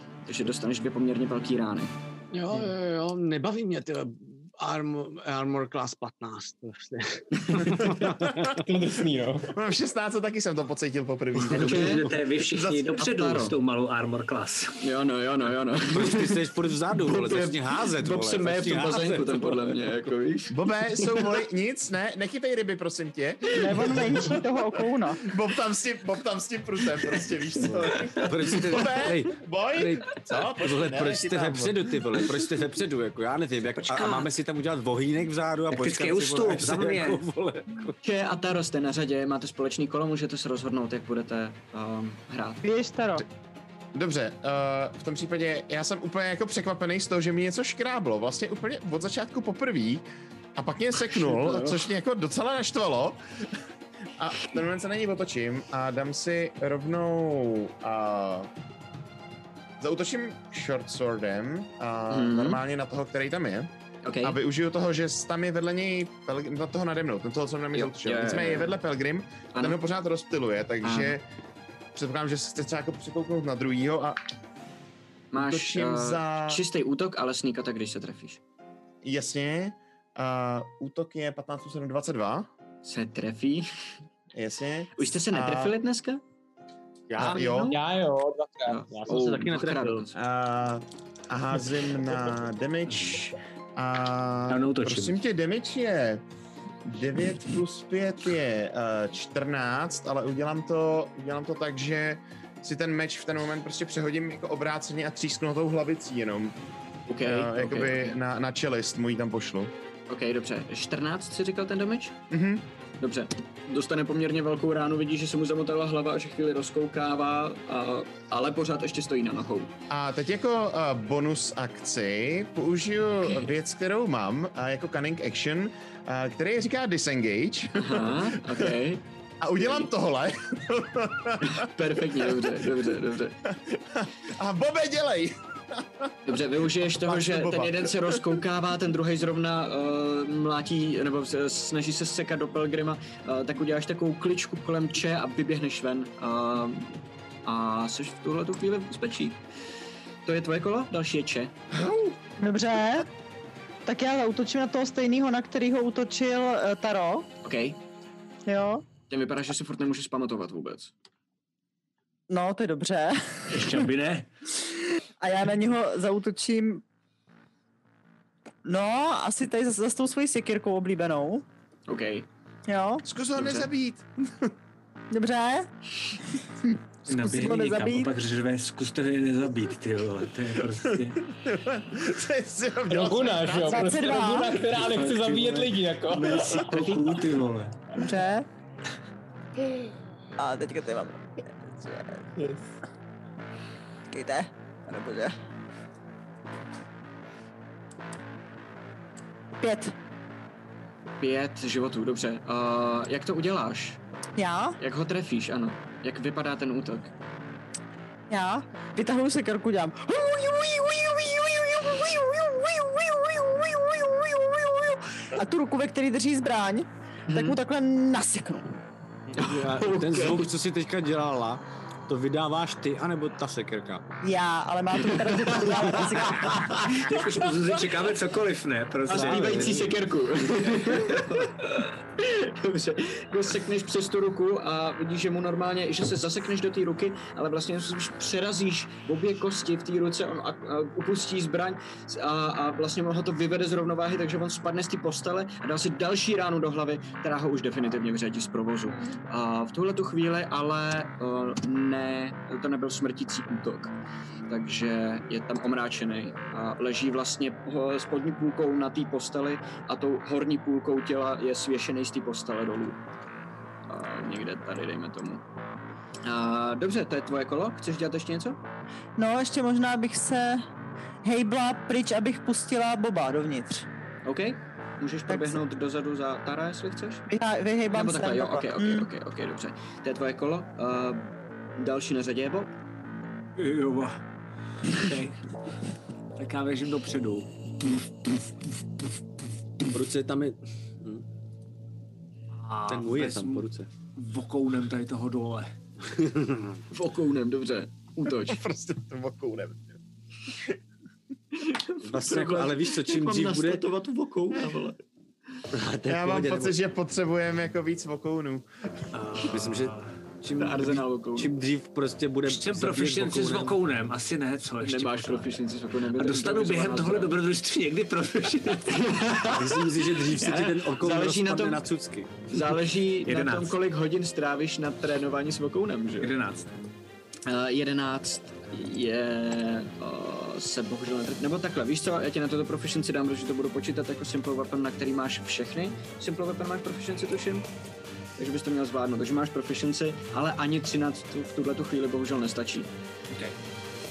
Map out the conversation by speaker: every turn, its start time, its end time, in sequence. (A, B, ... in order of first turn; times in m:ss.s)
0:00.3-0:01.9 A
0:02.3-0:08.6 B
0:08.0-0:08.6 C
0:08.6-0:09.5 D
0:09.5-0:13.0 C
0:11.4-0:12.2 B
0:11.5-0:14.8 E
0:11.6-0:12.0 A
0:13.0-0:13.6 A
0:14.8-0:16.5 A
0:15.9-0:19.7 B
0:17.0-0:21.2 A
0:20.5-0:24.4 C
0:23.5-0:25.2 F
0:25.2-0:32.0 C
0:27.6-0:38.0 B
0:33.8-0:34.3 E
0:35.7-0:37.2 E
0:38.0-0:42.6 A
0:42.6-0:43.2 F
0:43.9-0:50.0 C
0:50.6-0:53.2 C
0:54.2-0:58.5 C
0:59.8-1:11.2 C
1:02.1-1:02.6 A
1:04.0-1:04.4 A
1:07.7-1:08.8 A
1:10.8-1:11.2 A
1:12.0-1:14.2 C
1:15.3-1:18.4 A
1:15.3-1:16.6 C
1:19.0-1:22.5 C
1:22.8-1:23.7 A
1:24.3-1:25.8 C
1:25.0-1:26.2 A
1:27.1-1:27.4 B
1:27.2-1:27.8 C
1:27.2-1:27.8 A
1:27.7-1:28.8 D
1:28.7-1:30.2 A
1:28.9-1:30.1 B
1:30.2-1:36.2 C
1:32.9-1:33.2 E
1:34.5-1:35.2 E
1:36.8-1:46.6 C
1:47.1-1:48.2 A
1:47.2-1:49.7 C
1:50.1-1:52.2 A
1:52.3-1:52.6 C
1:53.0-1:59.7 A
1:59.9-2:08.7 C
2:07.8-2:09.0 A
2:09.4-2:12.7 C
2:09.6-2:09.9 A
2:11.4-2:13.4 A
2:13.5-2:18.4 C
2:16.2-2:29.4 A
2:30.2-2:31.6 A
2:31.7-2:32.2 C
2:32.4-2:33.1 F
2:33.9-2:37.3 F
2:37.4-2:37.8 A
2:38.5-2:38.8 F
2:39.1-2:40.9 A
2:42.3-2:43.7 F
2:43.5-2:44.3 E
2:45.2-2:46.8 F
2:48.6-2:51.4 F
2:51.9-2:52.3 A
2:52.7-2:53.0 F
2:53.0-2:54.5 C
2:53.4-2:53.7 A
2:55.1-2:55.7 F
2:56.6-2:58.1 F
2:57.1-3:01.3 E
3:00.8-3:04.0 C
3:02.9-3:07.0 D
3:03.6-3:04.6 F
3:04.7-3:07.9 E
3:08.0-3:08.5 F
3:10.4-3:12.3 F
3:14.1-3:15.4 F
3:19.6-3:19.9 F
3:21.2-3:24.0 A
3:24.4-3:24.8 F
3:24.8-3:27.1 A
3:28.3-3:38.8 F
3:37.3-3:37.6 A
3:39.4-3:40.5 A
3:39.4-3:44.1 B
3:44.2-3:46.7 F
3:45.0-3:45.9 A
3:46.0-3:47.0 B
3:46.9-3:49.9 E
3:49.1-4:13.9 A
3:49.1-3:50.0 B
3:50.8-3:51.2 E
4:14.5-4:23.0 A
4:23.9-4:25.4 A
4:26.2-4:28.6 A
4:29.2-4:30.7 F
4:31.2-4:33.9 F
4:34.2-4:37.3 A
4:35.3-4:35.6 F
4:37.3-4:39.1 F
4:37.9-4:42.7 A
4:43.6-4:44.2 E
4:44.9-4:45.4 E
4:46.4-4:47.5 E
4:49.9-4:51.2 B
4:52.5-4:55.7 E
4:52.9-4:53.9 B
4:56.0-4:56.8 B
4:56.9-4:58.6 A
4:58.3-5:00.8 C
5:01.5-5:05.0 A
5:02.0-5:03.8 B
5:05.7-5:06.7 B
5:06.1-5:08.7 C
5:09.1-5:10.1 E
5:09.4-5:13.8 B
5:10.5-5:11.5 A
5:12.5-5:15.6 E
5:14.8-5:17.3 A
5:16.2-5:19.3 E
5:18.9-5:21.9 A
5:19.5-5:22.3 B
5:22.5-5:26.3 A
5:23.2-5:23.8 E
5:26.2-5:26.7 E
5:27.5-5:37.7 A
5:38.4-5:42.9 A